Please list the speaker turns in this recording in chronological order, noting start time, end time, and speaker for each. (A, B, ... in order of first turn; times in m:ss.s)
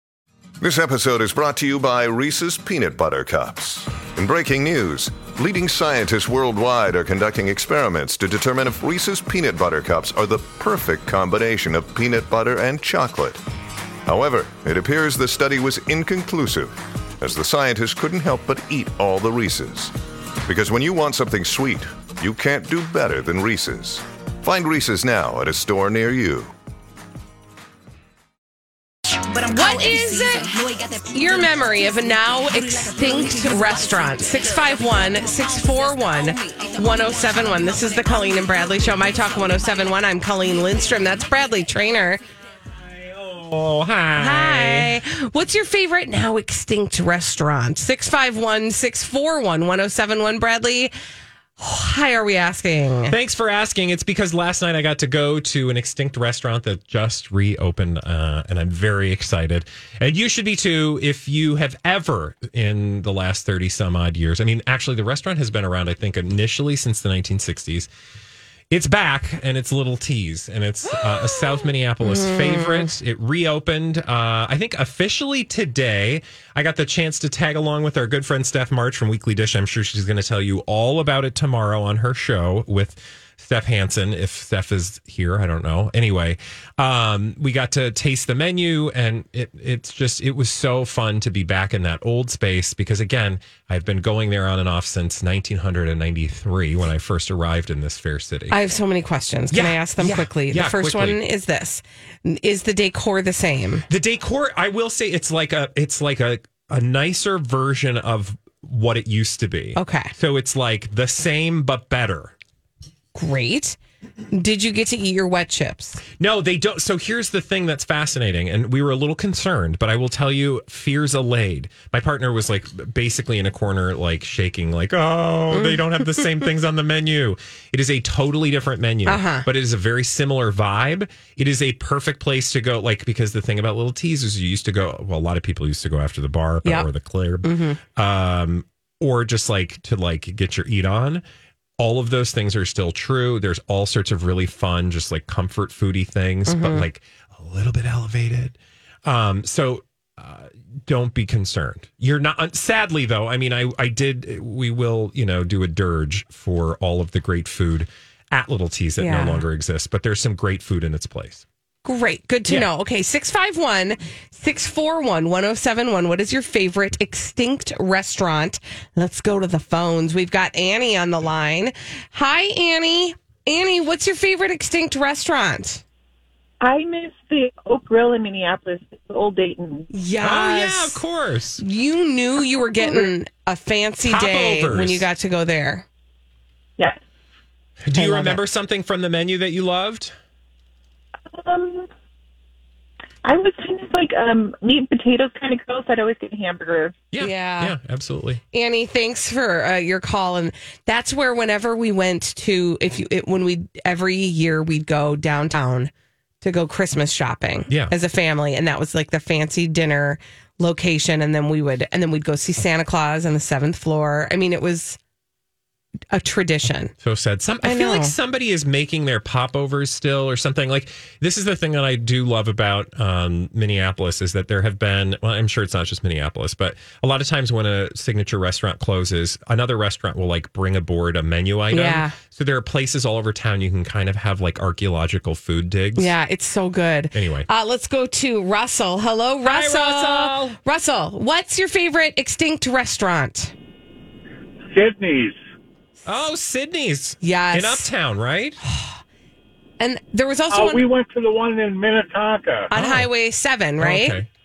0:00.6-0:13.4 A
0:14.0-0:19.9 A
0:20.4-0:26.5 A
0:29.3-0:42.2 B
0:42.8-0:44.9 C
0:44.1-0:50.9 B
0:51.6-0:53.2 B
0:53.1-1:07.9 C
1:08.7-1:38.6 C
1:11.0-1:12.9 B
1:38.5-1:43.8 B
1:39.5-1:41.2 C
1:43.9-1:52.3 C
1:49.8-1:50.1 B
1:53.1-1:53.8 B
1:54.3-1:56.0 B
1:56.1-2:21.2 C
2:05.5-2:05.8 B
2:09.0-2:09.5 B
2:17.4-2:17.8 B
2:21.8-2:41.4 C
2:26.5-2:26.9 B
2:39.0-2:39.4 B
2:41.8-2:55.8 B
2:56.6-2:59.9 D
2:59.9-3:01.0 B
3:00.2-3:01.6 C
3:01.6-3:05.8 B
3:04.0-3:05.0 C
3:07.8-3:10.1 C
3:11.3-3:11.9 D
3:13.2-3:17.0 D
3:17.1-3:18.4 C
3:17.2-3:17.8 B
3:18.5-3:25.9 B
3:26.4-3:35.0 B
3:27.7-3:27.9 C
3:36.1-3:36.9 B
3:37.0-3:56.1 C
3:37.6-3:38.1 B
3:51.7-3:52.2 B
3:56.0-4:03.5 B
3:57.1-3:57.5 C
3:59.4-4:00.6 C
4:04.7-4:05.4 E
4:06.0-4:08.6 C
4:07.2-4:07.9 B
4:08.6-4:09.0 B
4:09.8-4:10.9 B
4:10.5-4:12.7 E
4:12.7-4:14.2 B
4:12.7-4:13.1 C
4:13.8-4:14.2 C